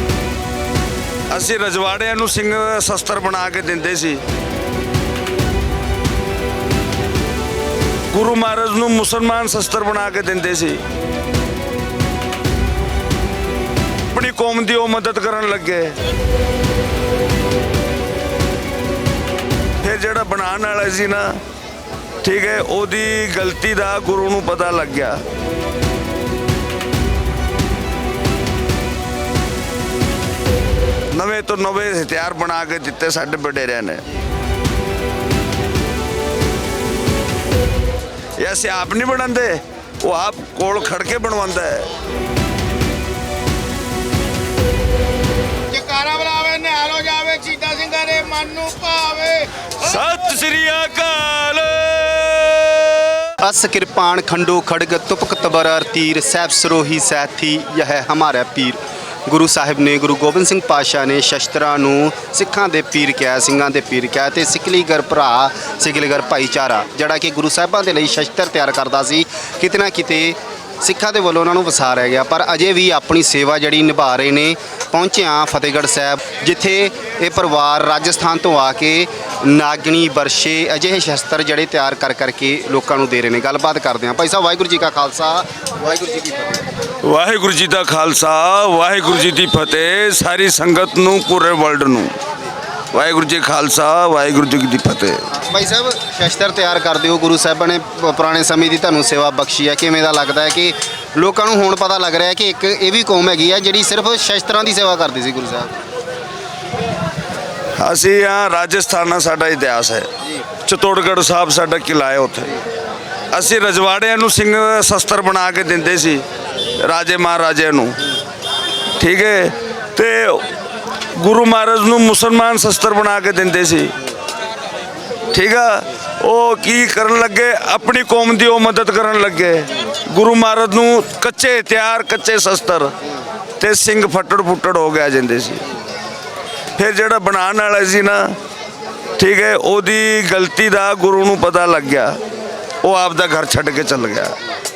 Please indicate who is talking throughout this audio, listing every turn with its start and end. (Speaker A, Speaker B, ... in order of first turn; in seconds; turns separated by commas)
Speaker A: 1.3-4.2, Speaker A: 8.1-10.8, Speaker A: 14.1-15.9, Speaker A: 19.8-21.4, Speaker A: 22.2-25.2, Speaker A: 31.1-34.0, Speaker A: 38.4-41.9, Speaker B: 45.7-49.5, Speaker A: 49.8-53.3, Speaker C: 53.4-86.6, Speaker A: 87.0-92.2, Speaker A: 92.9-95.3, Speaker C: 95.3-105.8, Speaker A: 107.8-110.1, Speaker A: 110.6-112.6, Speaker A: 113.3-116.2, Speaker A: 116.8-118.0, Speaker A: 119.0-120.5, Speaker A: 121.1-124.0, Speaker A: 125.3-132.9, Speaker A: 133.6-135.7, Speaker A: 136.8-138.4, Speaker A: 139.2-142.2, Speaker A: 142.8-144.4